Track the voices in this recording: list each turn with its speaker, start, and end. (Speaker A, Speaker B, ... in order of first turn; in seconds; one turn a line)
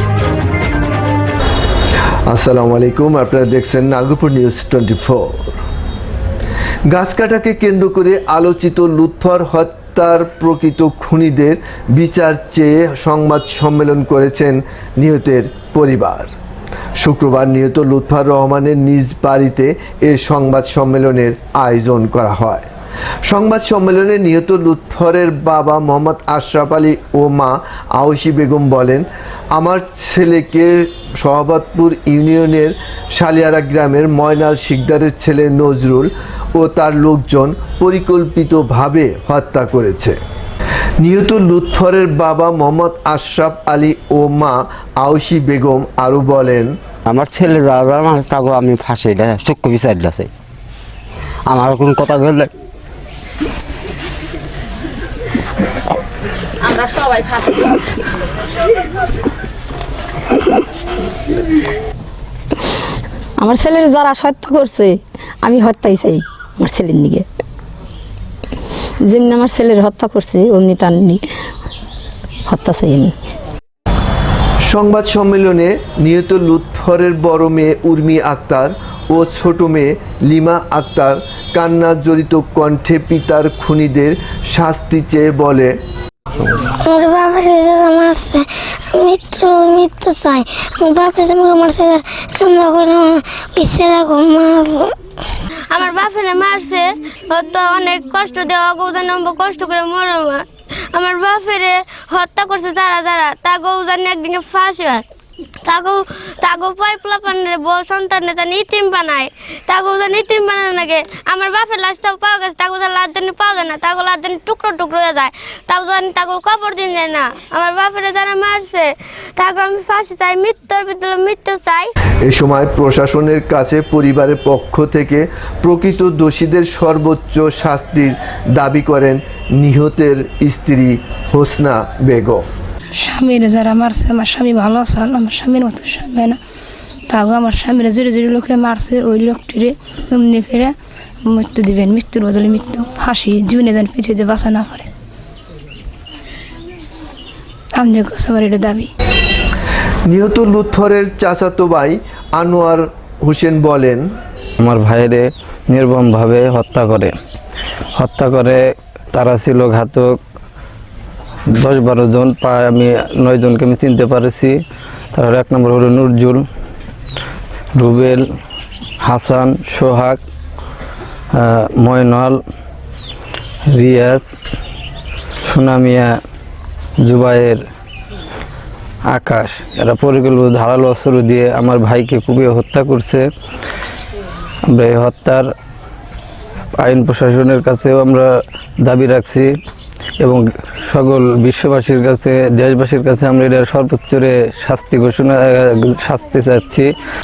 Speaker A: 2.3-5.5
Speaker A: 6.9-16.3
Speaker A: 17.0-22.7
Speaker A: 23.2-40.2
Speaker A: 41.0-46.7
Speaker B: 47.1-50.3
Speaker B: 51.5-52.5
Speaker C: 63.4-67.3
Speaker C: 69.1-71.2
Speaker C: 72.5-73.1
Speaker A: 74.7-85.7
Speaker D: 86.8-94.9
Speaker E: 95.7-105.0
Speaker E: 105.7-121.9
Speaker A: 122.2-132.5
Speaker F: 133.0-136.4
Speaker F: 137.1-144.9
Speaker F: 147.8-148.9
Speaker A: 150.1-154.1
Speaker G: 154.6-157.1
Speaker G: 158.0-158.6
Speaker G: 159.1-160.2
Speaker G: 161.6-164.6
Speaker G: 165.1-166.4
Speaker G: 167.8-168.2
Speaker G: 169.0-170.2
Speaker G: 171.3-172.4
Speaker G: 173.7-174.3
Speaker G: 175.5-176.1
Speaker G: 177.0-177.6
Speaker G: 179.1-183.3
Speaker G: 184.7-185.5
Speaker G: 186.8-188.3
Speaker G: 188.8-189.5
Speaker G: 190.2-196.9